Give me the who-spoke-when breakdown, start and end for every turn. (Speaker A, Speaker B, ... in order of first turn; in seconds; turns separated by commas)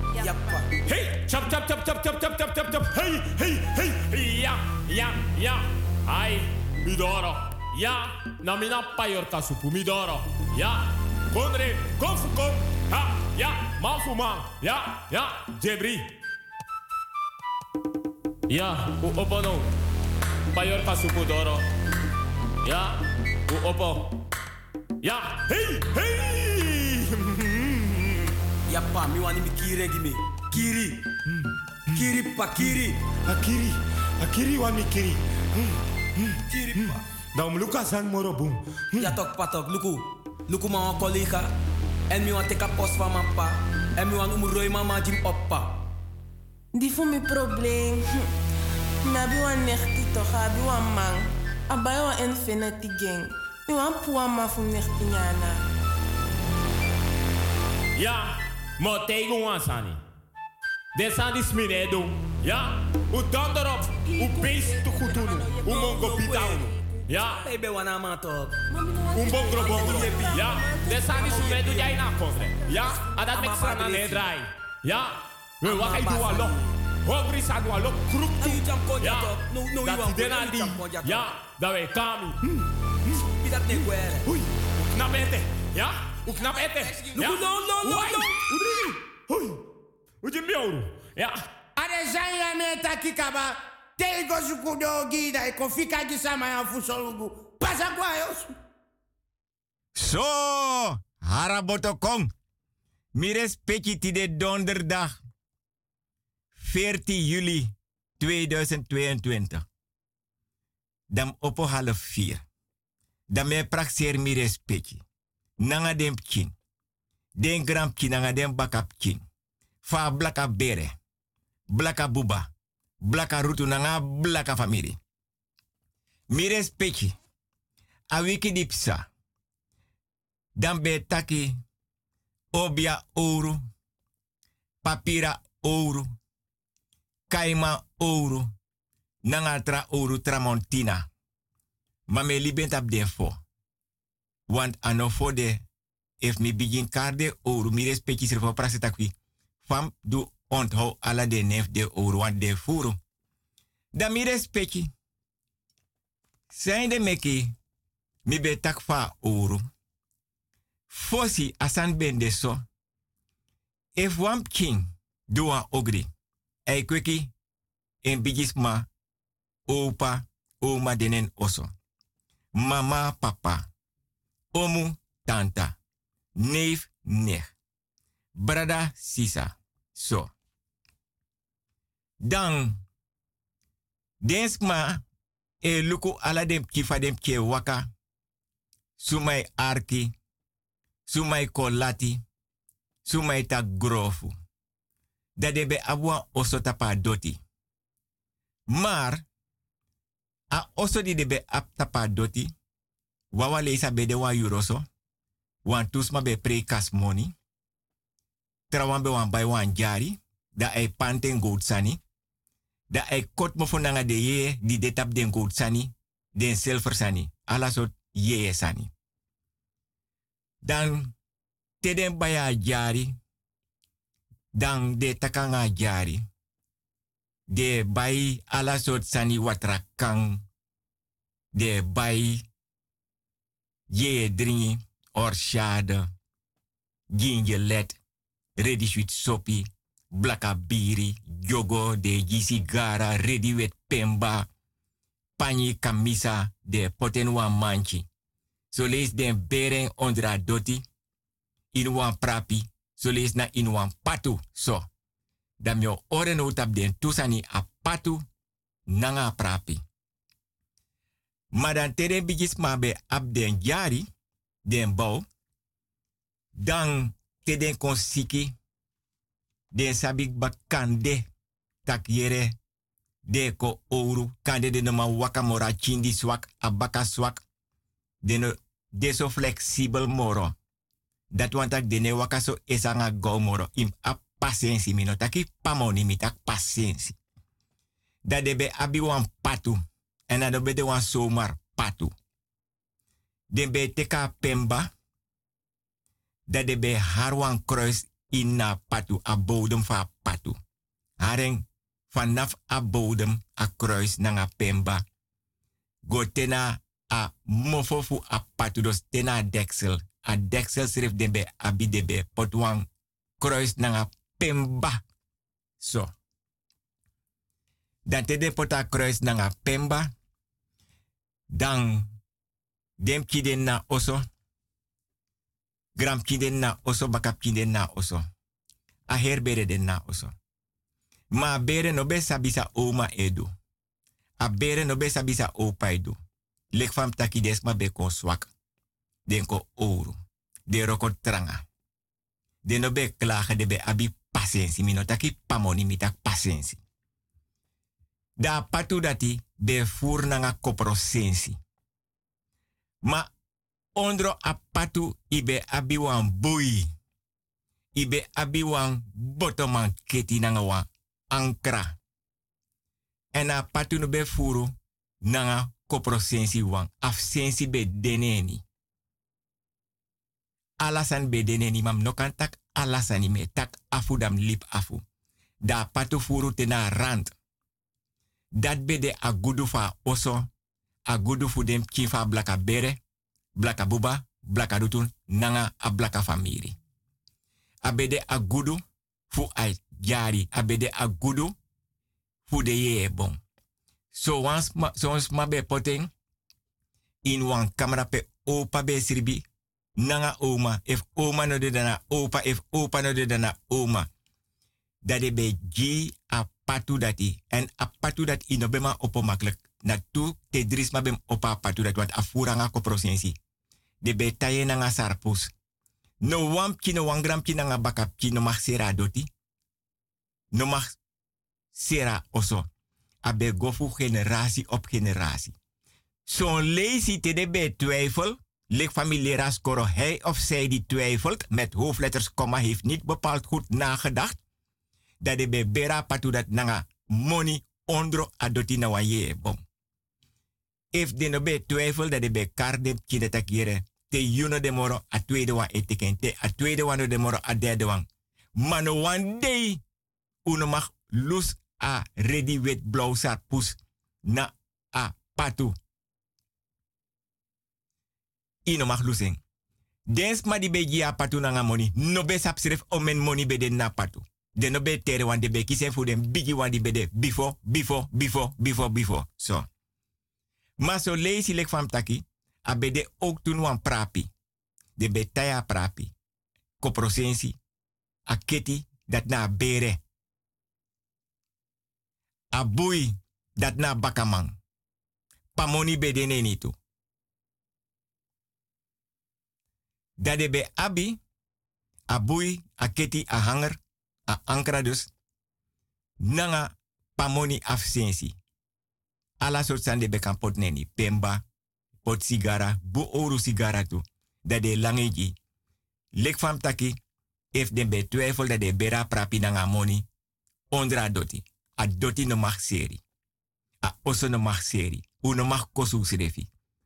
Speaker A: 0.2-0.7, Speaker B: 0.9-16.1, Speaker B: 18.5-19.7, Speaker B: 20.5-21.6, Speaker B: 22.6-23.0, Speaker B: 23.5-24.1, Speaker B: 25.0-27.8, Speaker A: 28.7-31.0, Speaker A: 31.9-33.0, Speaker B: 34.4-35.1, Speaker B: 37.5-38.5, Speaker A: 39.0-41.5, Speaker A: 42.1-45.7, Speaker C: 46.8-48.1, Speaker C: 49.0-55.6, Speaker B: 58.0-60.0, Speaker B: 61.0-67.5, Speaker C: 64.1-65.7, Speaker A: 65.0-66.7, Speaker A: 67.4-68.6, Speaker C: 68.7-71.1, Speaker B: 69.2-76.5, Speaker A: 69.6-70.4, Speaker A: 71.1-72.0, Speaker A: 73.3-74.2, Speaker A: 75.7-76.6, Speaker B: 77.0-82.4, Speaker A: 78.4-81.3, Speaker A: 83.4-84.4, Speaker B: 85.0-89.6, Speaker A: 86.3-88.3, Speaker B: 90.2-91.4, Speaker D: 91.8-98.5, Speaker E: 100.0-102.3, Speaker E: 103.2-105.1, Speaker E: 106.6-109.7, Speaker E: 111.1-112.4, Speaker E: 113.3-115.0, Speaker E: 115.6-116.5, Speaker E: 117.4-119.2, Speaker E: 119.8-120.9, Speaker E: 121.7-122.5, Speaker E: 123.0-125.0, Speaker E: 126.3-127.2, Speaker E: 128.1-129.1, Speaker E: 130.6-131.6, Speaker E: 132.5-133.6, Speaker E: 134.8-136.1, Speaker E: 137.3-138.5, Speaker E: 139.3-141.1, Speaker E: 142.1-143.4, Speaker E: 144.5-145.6, Speaker E: 146.2-149.1, Speaker E: 149.7-153.0, Speaker E: 153.9-154.9, Speaker E: 156.5-157.5, Speaker E: 158.3-159.6, Speaker E: 160.9-162.6, Speaker E: 164.0-166.1, Speaker E: 166.7-167.3, Speaker E: 168.0-168.9, Speaker E: 169.7-171.7, Speaker E: 172.5-173.7, Speaker E: 174.5-175.8, Speaker E: 176.4-177.5, Speaker E: 178.4-180.3, Speaker E: 182.2-182.8, Speaker E: 184.2-185.0, Speaker E: 185.6-187.9, Speaker E: 189.0-190.1, Speaker E: 191.1-192.2, Speaker E: 193.1-194.3, Speaker E: 195.4-197.4, Speaker E: 198.7-199.2, Speaker E: 200.5-202.5, Speaker E: 203.3-204.8, Speaker E: 205.7-207.3, Speaker E: 208.7-212.0, Speaker E: 212.9-218.9, Speaker E: 220.6-221.1, Speaker E: 221.8-223.2, Speaker E: 224.6-226.2, Speaker E: 227.5-230.4, Speaker E: 231.6-232.4, Speaker E: 233.9-236.1, Speaker E: 237.1-238.0, Speaker E: 238.6-244.5, Speaker E: 245.4-248.1, Speaker E: 248.7-250.8, Speaker E: 251.7-254.9, Speaker E: 255.6-258.2, Speaker E: 258.9-259.8, Speaker E: 261.5-264.1, Speaker E: 264.7-265.2, Speaker E: 266.6-268.5, Speaker E: 269.7-271.2, Speaker E: 271.9-272.6, Speaker E: 273.3-277.4, Speaker E: 278.2-280.5, Speaker E: 281.3-287.2, Speaker E: 288.2-292.1, Speaker E: 293.5-294.9, Speaker E: 296.5-300.6, Speaker E: 301.2-305.0, Speaker E: 306.1-312.9, Speaker E: 313.4-315.0, Speaker E: 315.8-316.1, Speaker E: 318.1-320.1, Speaker E: 321.5-322.1, Speaker E: 323.0-324.2, Speaker E: 326.0-328.2, Speaker E: 329.1-330.3, Speaker E: 331.3-333.5, Speaker E: 334.4-336.2, Speaker E: 336.7-338.5, Speaker E: 339.3-340.2, Speaker E: 340.7-341.6, Speaker E: 342.6-346.8, Speaker E: 348.4-351.6, Speaker E: 354.0-356.9, Speaker E: 358.0-361.9, Speaker E: 363.3-364.7, Speaker E: 365.2-368.6, Speaker E: 370.8-375.0, Speaker E: 375.6-377.3, Speaker E: 378.6-380.5, Speaker E: 381.1-383.0, Speaker E: 383.6-386.8, Speaker E: 387.8-391.5, Speaker E: 392.5-393.4, Speaker E: 394.1-396.1, Speaker E: 397.2-399.4, Speaker E: 400.0-404.1, Speaker E: 405.0-413.4, Speaker E: 414.0-415.5, Speaker E: 416.2-419.3, Speaker E: 420.5-421.0, Speaker E: 421.7-422.7, Speaker E: 423.2-425.5, Speaker E: 426.3-434.4, Speaker E: 435.2-439.6, Speaker E: 440.9-448.1, Speaker E: 448.6-449.8, Speaker E: 450.5-455.8, Speaker E: 458.7-459.4, Speaker E: 460.1-469.6, Speaker E: 470.8-474.3, Speaker E: 475.0-476.1, Speaker E: 476.8-477.6, Speaker E: 478.3-480.0, Speaker E: 482.5-484.5, Speaker E: 485.6-486.7, Speaker E: 490.2-491.2, Speaker E: 492.1-493.8, Speaker E: 494.3-495.1, Speaker E: 496.2-498.4, Speaker E: 499.4-501.4, Speaker E: 502.1-505.3, Speaker E: 506.2-507.0, Speaker E: 507.5-510.1, Speaker E: 510.7-513.0, Speaker E: 513.8-516.5